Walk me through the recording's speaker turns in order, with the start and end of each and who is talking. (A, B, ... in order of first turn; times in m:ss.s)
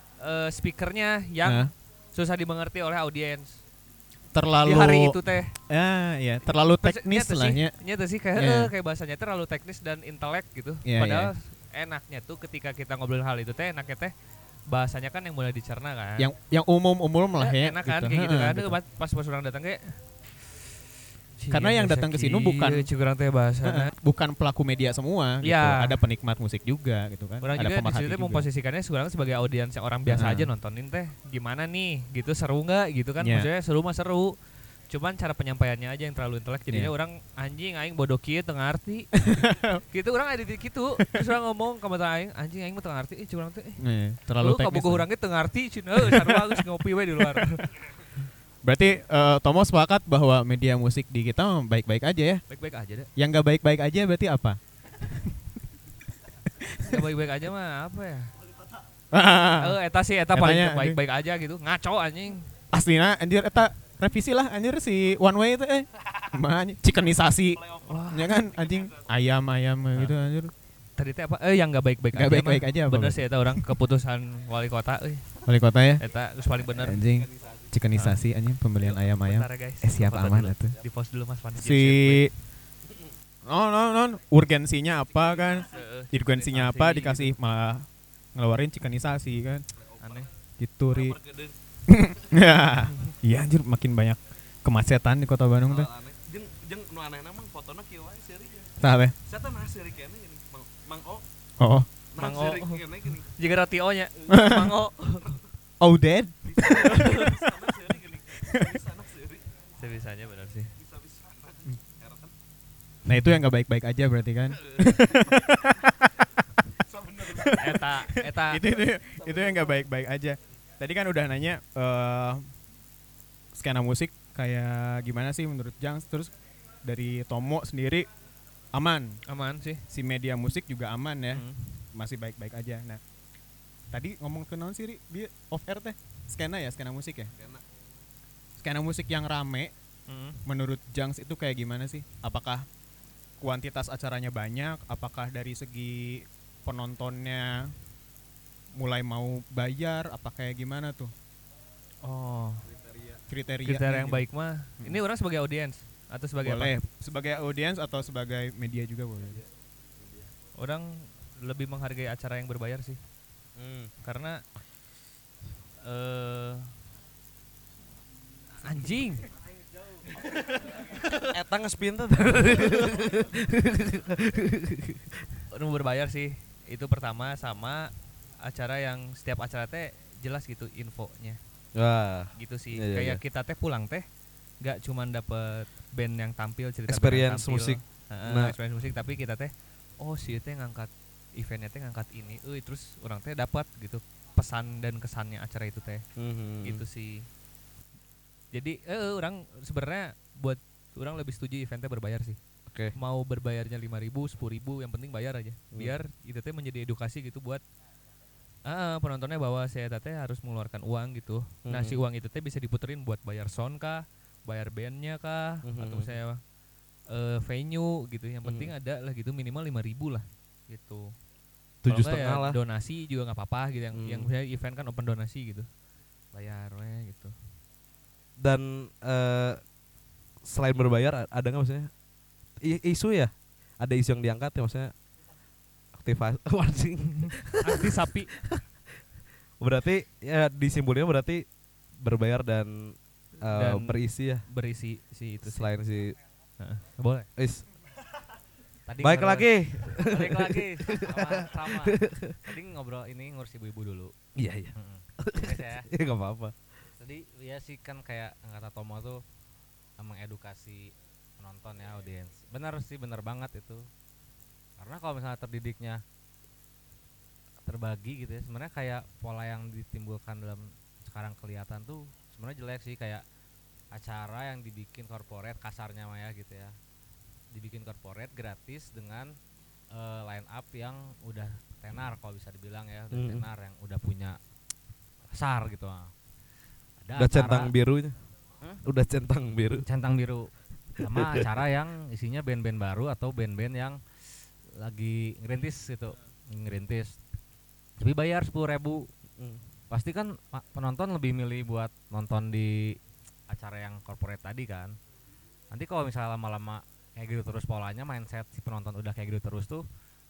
0:00.2-0:03.6 A
0:01.4-0:01.7 B
0:04.3-0:07.8 B
0:04.6-0:05.6 A
0:06.8-0:14.1 A
0:08.4-0:08.7 B
0:10.8-0:11.3 B
0:14.7-0:16.3 A
0:16.2-0:18.8 B
0:17.4-0:20.6 A
0:21.4-0:23.9 A
0:21.5-0:22.9 B
0:23.6-0:28.5 B
0:25.4-0:26.0 A
0:27.4-0:39.3 A
0:30.1-0:30.5 B
0:33.2-0:33.5 B
0:39.2-0:39.8 B
0:39.9-0:43.8 A
0:43.8-0:45.1 B
0:44.4-0:48.2 A
0:46.0-0:46.6 B
0:47.2-0:47.6 B
0:48.6-0:52.4 B
0:52.5-0:53.1 A
0:53.2-0:55.4 B
0:56.6-0:57.1 B
0:56.8-0:58.3 A
0:59.1-0:59.8 B
0:59.6-1:02.5 A
1:00.3-1:01.0 B
1:02.7-1:10.5 B
1:07.8-1:08.4 A
1:11.0-1:15.4 A
1:12.1-1:13.8 B
1:15.5-1:16.0 B
1:16.0-1:17.0 A
1:16.7-1:20.8 B
1:18.0-1:18.2 A
1:18.8-1:22.2 A
1:21.6-1:22.3 B
1:23.5-1:29.7 B
1:25.4-1:27.3 A
1:30.0-1:30.3 A
1:30.6-1:31.2 B
1:30.9-1:31.5 C
1:31.9-1:35.9 B
1:35.7-1:38.7 C
1:38.8-1:39.2 B
1:39.3-1:41.2 C
1:41.6-1:41.9 B
1:42.1-1:43.2 C
1:42.2-1:45.4 A
1:44.3-1:44.8 B
1:45.8-1:47.8 B
1:46.6-1:49.4 C
1:46.8-1:47.3 A
1:48.4-1:48.8 B
1:49.8-1:50.7 A
1:50.8-1:52.3 C
1:53.0-1:56.4 B
1:56.9-1:57.5 C
1:57.2-2:02.5 B
1:57.5-1:58.6 A
2:03.6-2:06.3 B
2:06.8-2:08.1 B
2:08.7-2:09.2 B
2:09.3-2:09.8 A
2:09.9-2:13.0 B
2:11.3-2:11.7 A
2:13.9-2:17.3 B
2:18.6-2:19.7 B
2:20.1-2:20.4 A
2:20.5-2:22.7 B
2:23.4-2:27.8 B
2:28.8-2:31.1 B
2:32.0-2:32.7 A
2:33.3-2:34.2 B
2:33.6-2:36.7 A
2:36.4-2:39.4 B
2:40.6-2:43.0 A
2:43.6-2:43.9 C
2:44.0-2:44.4 A
2:45.8-2:46.7 A
2:48.6-2:49.3 A
2:50.5-2:55.2 C
2:55.5-3:01.4 A
3:01.8-3:03.2 C
3:02.4-3:04.0 A
3:04.6-3:16.1 A
3:06.9-3:08.5 C
3:16.2-3:16.8 C
3:16.6-3:17.3 A
3:18.5-3:22.4 A
3:23.0-3:27.6 A
3:28.7-3:36.4 A
3:31.7-3:32.0 C
3:35.6-3:36.1 C
3:37.1-3:41.1 A
3:38.4-3:38.7 C
3:41.8-3:42.6 C
3:41.8-3:45.7 A
3:43.9-3:44.3 C
3:46.3-3:47.3 A
3:48.4-3:49.6 C
3:50.4-3:51.9 C
3:52.6-3:54.9 C
3:56.0-3:58.6 C
3:57.6-3:58.4 A
3:59.6-4:04.4 C
4:03.5-4:05.8 A
4:05.4-4:06.2 C
4:06.6-4:07.3 A
4:07.4-4:07.7 C
4:08.9-4:14.1 D
4:09.0-4:12.4 C
4:14.4-4:16.6 C
4:14.8-4:15.9 D
4:17.0-4:19.2 D
4:20.0-4:23.9 D
4:24.8-4:26.0 D
4:27.6-4:33.2 D
4:33.9-4:36.8 D
4:37.5-4:39.4 D
4:39.9-4:44.4 D
4:43.1-4:43.5 C
4:45.3-4:46.1 D
4:47.0-4:47.7 D
4:47.2-4:48.3 C
4:48.8-4:49.9 C
4:49.9-4:57.2 D
4:51.1-4:51.5 C
4:58.0-4:59.1 D
4:59.4-4:59.6 C
4:59.9-5:05.0 D
5:05.7-5:09.8 D